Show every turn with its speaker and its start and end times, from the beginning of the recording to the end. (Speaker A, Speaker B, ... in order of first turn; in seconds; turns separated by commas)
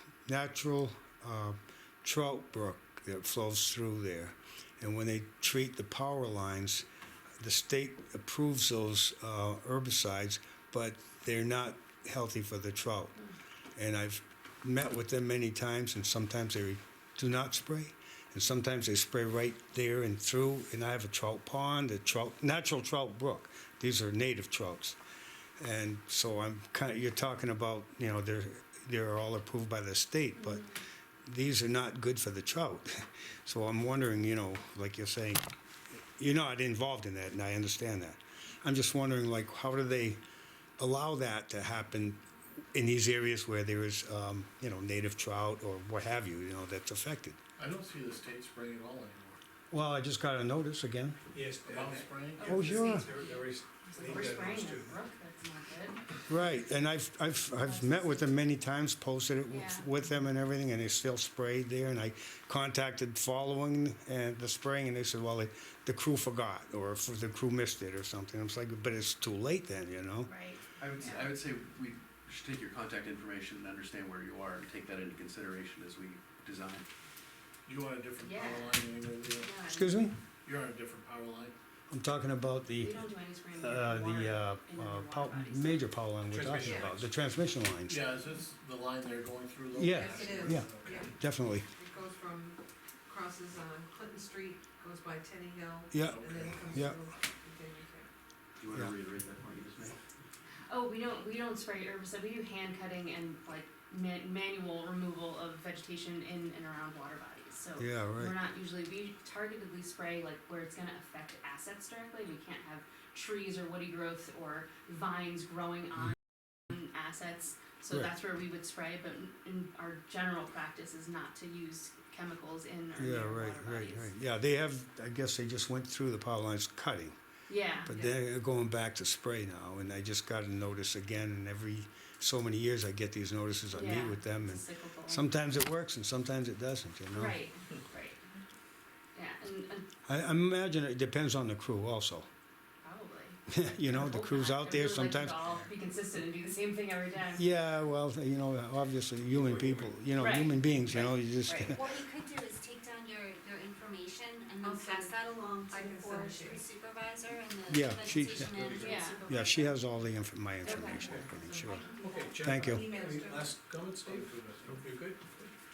Speaker A: 0.3-6.9, Speaker A: 7.4-13.1, Speaker A: 13.8-25.0, Speaker A: 25.6-30.7, Speaker B: 30.4-30.8, Speaker A: 31.3-35.4, Speaker A: 36.2-40.2, Speaker A: 40.8-42.2, Speaker A: 42.7-47.4, Speaker C: 47.6-49.4, Speaker A: 49.7-51.2, Speaker D: 51.3-55.0, Speaker C: 51.6-53.0, Speaker B: 52.4-56.0, Speaker A: 52.5-53.1, Speaker A: 56.3-70.3, Speaker B: 57.6-58.3, Speaker B: 59.5-59.9, Speaker B: 70.2-71.3, Speaker E: 70.8-76.9, Speaker C: 77.7-79.5, Speaker B: 78.2-78.8, Speaker B: 79.4-80.1, Speaker A: 79.7-80.2, Speaker C: 80.5-81.5, Speaker A: 81.9-83.1, Speaker B: 82.8-85.9, Speaker A: 83.6-88.0, Speaker C: 86.3-87.1, Speaker F: 86.7-87.0, Speaker C: 87.9-91.2, Speaker A: 89.8-91.7, Speaker F: 90.0-91.1, Speaker F: 91.7-98.1, Speaker A: 95.9-97.0, Speaker C: 96.0-96.6, Speaker E: 98.6-100.0, Speaker B: 100.7-116.2, Speaker A: 107.8-108.4, Speaker B: 116.7-124.1, Speaker A: 123.0-127.2, Speaker B: 127.5-128.1, Speaker A: 127.9-137.4, Speaker B: 133.7-135.3, Speaker B: 137.1-138.2, Speaker B: 139.2-139.9, Speaker A: 140.1-142.3, Speaker B: 142.8-147.5, Speaker A: 143.5-145.5, Speaker A: 147.3-151.8, Speaker D: 149.3-149.8, Speaker B: 150.2-151.8, Speaker G: 151.7-159.8, Speaker F: 154.6-156.6, Speaker A: 157.7-161.9, Speaker B: 158.8-159.2, Speaker B: 160.6-161.2, Speaker F: 160.7-163.6, Speaker D: 162.0-165.3, Speaker A: 162.4-162.9, Speaker C: 164.0-164.8